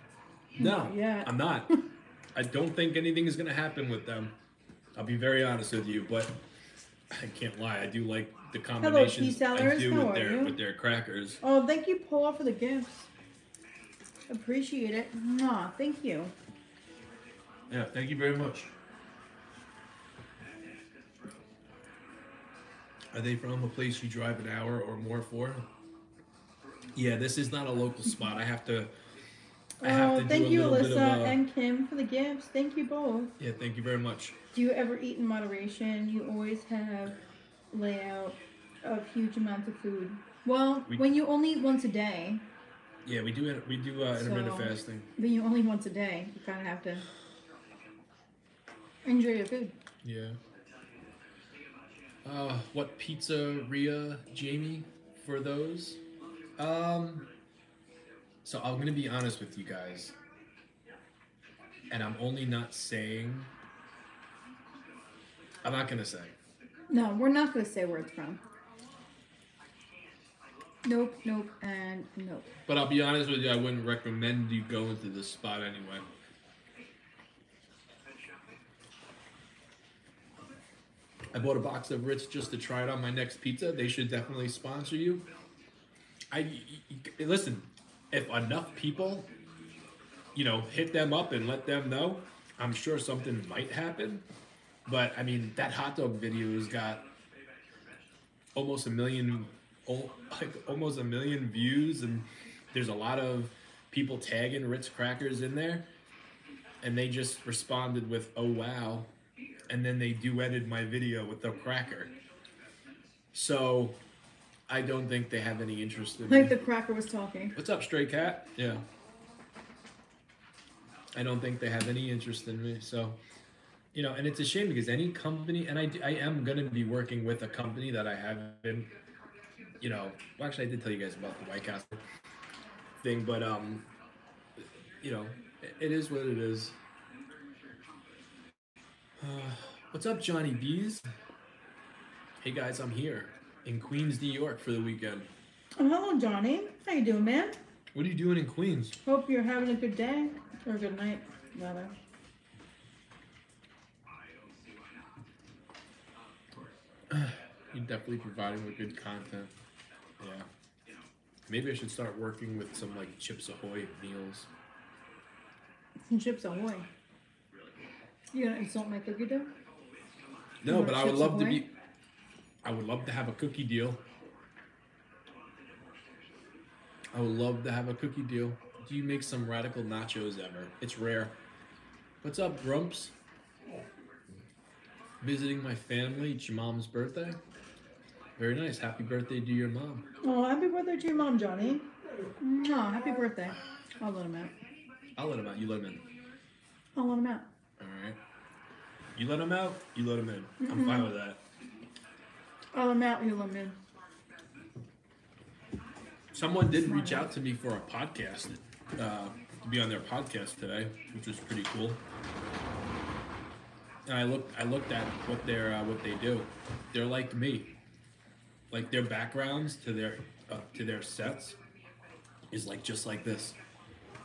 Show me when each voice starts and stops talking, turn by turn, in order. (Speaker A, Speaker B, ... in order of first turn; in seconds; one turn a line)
Speaker A: 0.6-1.7
Speaker B: 0.6-1.8
Speaker A: 2.3-4.3
Speaker A: 4.9-6.4
Speaker A: 7.1-11.4
Speaker B: 8.8-10.5
Speaker B: 11.4-13.1
Speaker B: 14.3-16.3
Speaker A: 17.7-18.7
Speaker A: 23.1-25.6
Speaker A: 26.9-28.9
Speaker B: 29.8-33.3
Speaker A: 29.8-31.4
Speaker A: 33.4-34.4
Speaker B: 34.5-37.2
Speaker B: 37.7-42.5
Speaker A: 43.0-45.1
Speaker B: 44.1-47.1
Speaker B: 49.0-49.8
Speaker A: 50.0-50.4
Speaker A: 52.2-56.0
Speaker A: 56.6-57.3
Speaker A: 58.4-60.1
Speaker A: 61.9-63.5
Speaker A: 65.6-66.3
Speaker B: 66.9-68.4
Speaker B: 70.8-72.5
Speaker A: 72.7-76.0
Speaker A: 81.3-85.2
Speaker A: 86.3-89.3
Speaker A: 90.3-94.2
Speaker A: 94.8-97.0
Speaker A: 98.5-105.9
Speaker A: 106.8-109.1
Speaker A: 109.7-112.1
Speaker A: 113.3-114.0
Speaker A: 114.7-116.5
Speaker B: 116.2-117.5
Speaker A: 117.5-118.8
Speaker A: 121.1-123.2
Speaker A: 123.9-128.9
Speaker A: 129.8-132.0
Speaker A: 133.0-133.9
Speaker A: 134.6-136.8
Speaker A: 139.2-141.0
Speaker A: 142.4-145.3
Speaker B: 145.8-147.6
Speaker A: 147.9-149.0
Speaker B: 149.0-151.9
Speaker A: 157.1-159.5
Speaker A: 160.2-160.5
Speaker A: 161.5-164.5
Speaker B: 166.1-166.9
Speaker B: 168.3-169.5
Speaker A: 170.6-171.7
Speaker B: 170.7-171.6
Speaker A: 172.6-174.0
Speaker A: 177.1-181.3
Speaker A: 182.2-183.1
Speaker A: 185.2-187.4
Speaker A: 188.4-190.1
Speaker B: 190.2-194.5
Speaker A: 195.2-196.0
Speaker B: 196.9-197.4
Speaker A: 197.8-198.2
Speaker A: 199.1-201.4
Speaker B: 200.6-201.1
Speaker B: 202.7-203.8
Speaker A: 206.3-212.0
Speaker B: 206.8-207.3
Speaker A: 214.1-217.7
Speaker A: 218.7-221.6
Speaker A: 222.5-223.6